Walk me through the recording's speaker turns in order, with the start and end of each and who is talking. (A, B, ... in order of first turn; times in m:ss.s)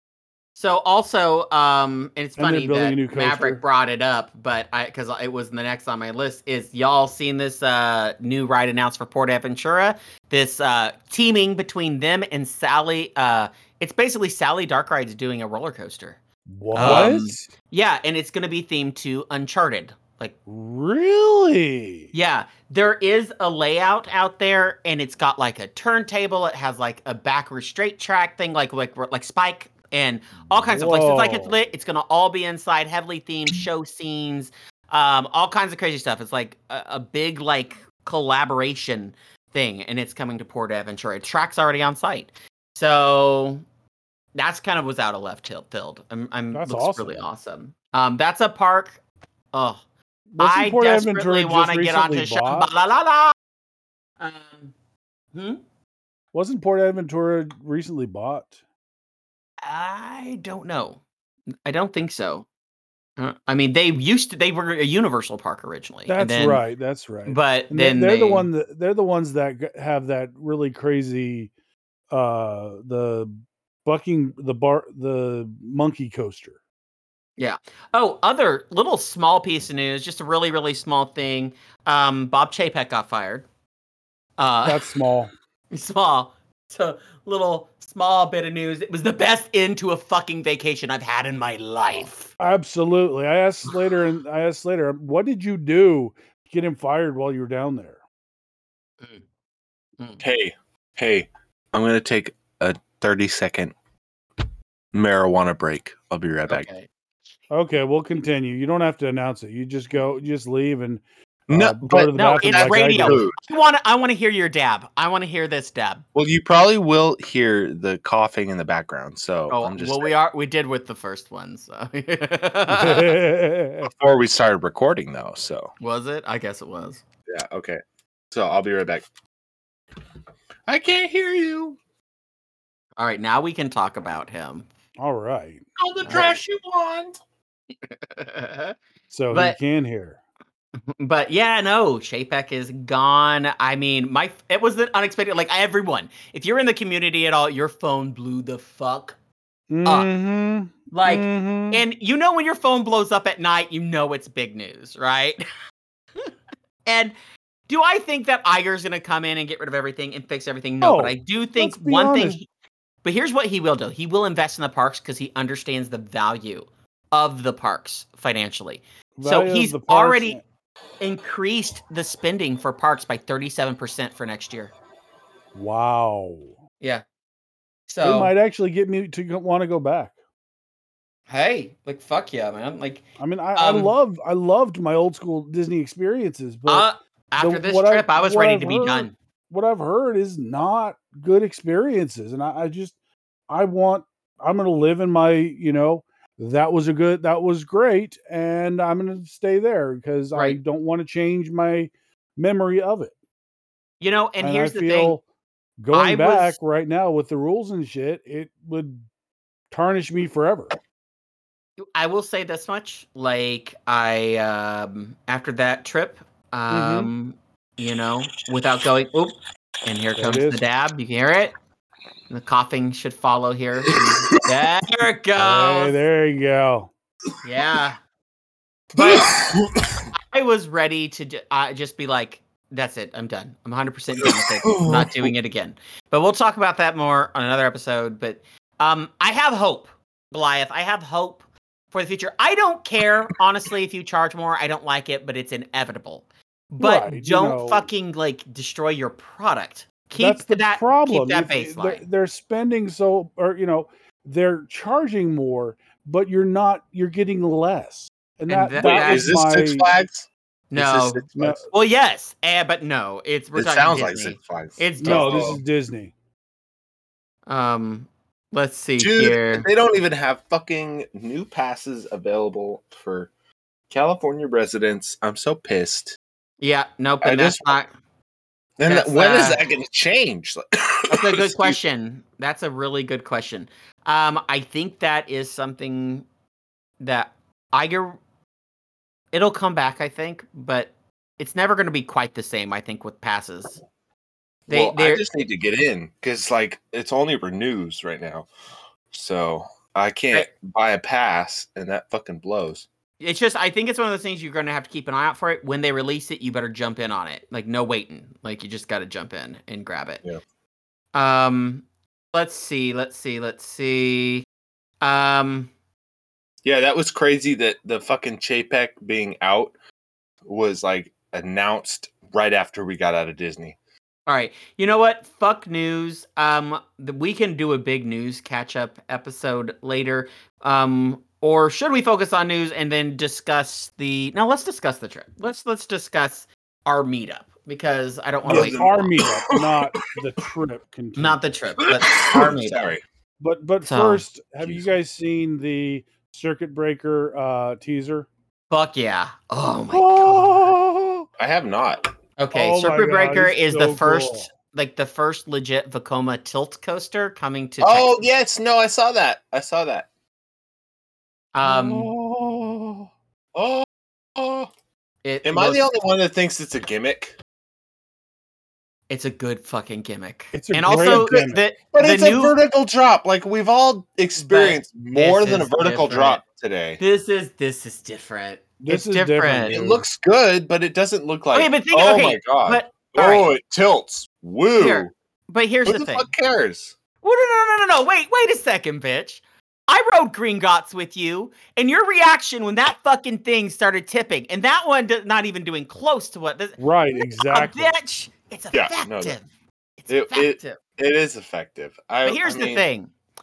0:00.6-0:16.2 A
0:02.4-0:03.6 B
0:16.5-0:17.5 B
0:16.7-0:20.4 A
0:16.8-0:17.2 C
0:20.5-0:22.1 B
0:22.1-0:43.6 A
0:30.7-0:31.6 B
0:44.4-0:49.0 A
0:46.5-0:47.2 B
0:49.5-0:49.8 A
0:50.3-0:52.7 B
0:50.4-0:53.3 A
0:54.2-0:54.7 A
0:55.3-0:55.6 A
0:56.3-0:58.6 B
0:59.6-1:01.0 A
1:01.6-1:02.5 A
1:03.2-1:06.6 A
1:06.1-1:11.5 B
1:07.3-1:08.5 A
1:12.1-1:13.3 B
1:13.8-1:16.6 B
1:17.4-1:23.4 A
1:24.4-1:24.9 A
1:24.6-1:25.3 B
1:25.7-1:32.3 A
1:32.4-1:38.0 B
1:40.2-1:43.7 C
1:44.9-1:46.7 C
1:46.5-1:46.9 A
1:47.5-1:53.3 B
1:51.5-1:53.4 C
1:52.2-1:56.0 A
1:56.2-2:00.1 C
1:59.5-2:03.2 A
2:02.7-2:03.9 B
2:03.8-2:05.7 C
2:05.8-2:07.0 A
2:07.3-2:07.8 C
2:08.3-2:09.0 C
2:10.7-2:11.8 C
2:13.0-2:14.7 A
2:15.0-2:15.6 B
2:15.8-2:17.2 C
2:16.1-2:16.4 A
2:17.9-2:18.8 A
2:19.1-2:20.2 B
2:19.3-2:19.6 A
2:20.9-2:29.2 A
2:29.7-2:31.8 B
2:29.8-2:30.1 A
2:30.9-2:35.4 A
2:36.9-2:37.2 A
2:37.7-2:42.5 A
2:40.8-2:42.4 B
2:43.0-2:50.4 A
2:49.2-2:50.4 B
2:51.0-2:54.7 A
2:55.5-2:56.5 B
2:57.9-2:58.3 A
2:58.0-3:00.1 B
3:01.3-3:03.0 A
3:03.2-3:06.9 B
3:03.6-3:03.9 A
3:06.7-3:09.1 A
3:07.4-3:12.9 B
3:13.5-3:23.1 B
3:24.0-3:25.2 A
3:24.4-3:25.2 B
3:25.8-3:29.0 B
3:25.9-3:26.6 A
3:29.7-3:30.8 B
3:31.9-3:41.5 A
3:36.7-3:37.1 B
3:40.2-3:40.6 B
3:42.3-3:46.0 A
3:45.4-3:46.9 B
3:47.4-3:48.0 A
3:49.0-3:49.3 A
3:49.0-3:50.0 C
3:50.1-4:12.0 A
3:54.2-3:55.3 C
4:06.8-4:07.9 B
4:10.2-4:19.9 B
4:18.5-4:19.3 A
4:18.8-4:21.6 C
4:20.7-4:25.6 A
4:21.4-4:21.6 B
4:23.6-4:25.6 C
4:25.0-4:26.1 B
4:27.5-4:29.7 A
4:29.0-4:33.3 C
4:33.9-4:36.2 C
4:36.6-4:37.9 A
4:37.2-4:37.8 C
4:38.8-4:41.8 C
4:38.9-4:39.6 A
4:41.1-4:46.2 A
4:47.0-4:48.2 A
4:49.3-4:53.8 A
4:54.7-4:55.2 A
4:54.7-4:58.5 C
4:59.1-5:02.9 C
5:03.2-5:10.2 A
5:11.1-5:14.4 A
5:15.0-5:15.7 A
5:16.6-5:19.7 C
5:20.5-5:23.8 C
5:24.3-5:39.1 A
5:38.4-5:41.4 B
5:38.5-5:39.8 C
5:41.2-5:42.9 A
5:41.8-5:43.0 C
5:43.4-5:48.3 B
5:43.8-5:44.2 A
5:48.7-5:50.7 A
5:50.0-5:52.1 C
5:50.4-5:50.7 B
5:52.4-5:58.2 A
5:52.5-5:54.5 B
5:57.8-6:00.1 C
6:01.5-6:02.1 A
6:01.6-6:04.7 C
6:05.2-6:05.8 A
6:05.4-6:07.4 C
6:09.1-6:12.5 A
6:10.5-6:11.6 B
6:10.9-6:17.0 C
6:14.4-6:16.4 A
6:17.0-6:19.8 A
6:18.8-6:20.0 B
6:19.7-6:25.1 C
6:21.5-6:23.5 A
6:24.8-6:26.3 A
6:25.9-6:26.9 C
6:27.2-6:36.8 A
6:36.8-6:37.9 B
6:37.4-6:39.4 A
6:38.7-6:39.4 C
6:40.0-6:40.8 A
6:40.1-6:42.8 C
6:42.2-6:43.1 A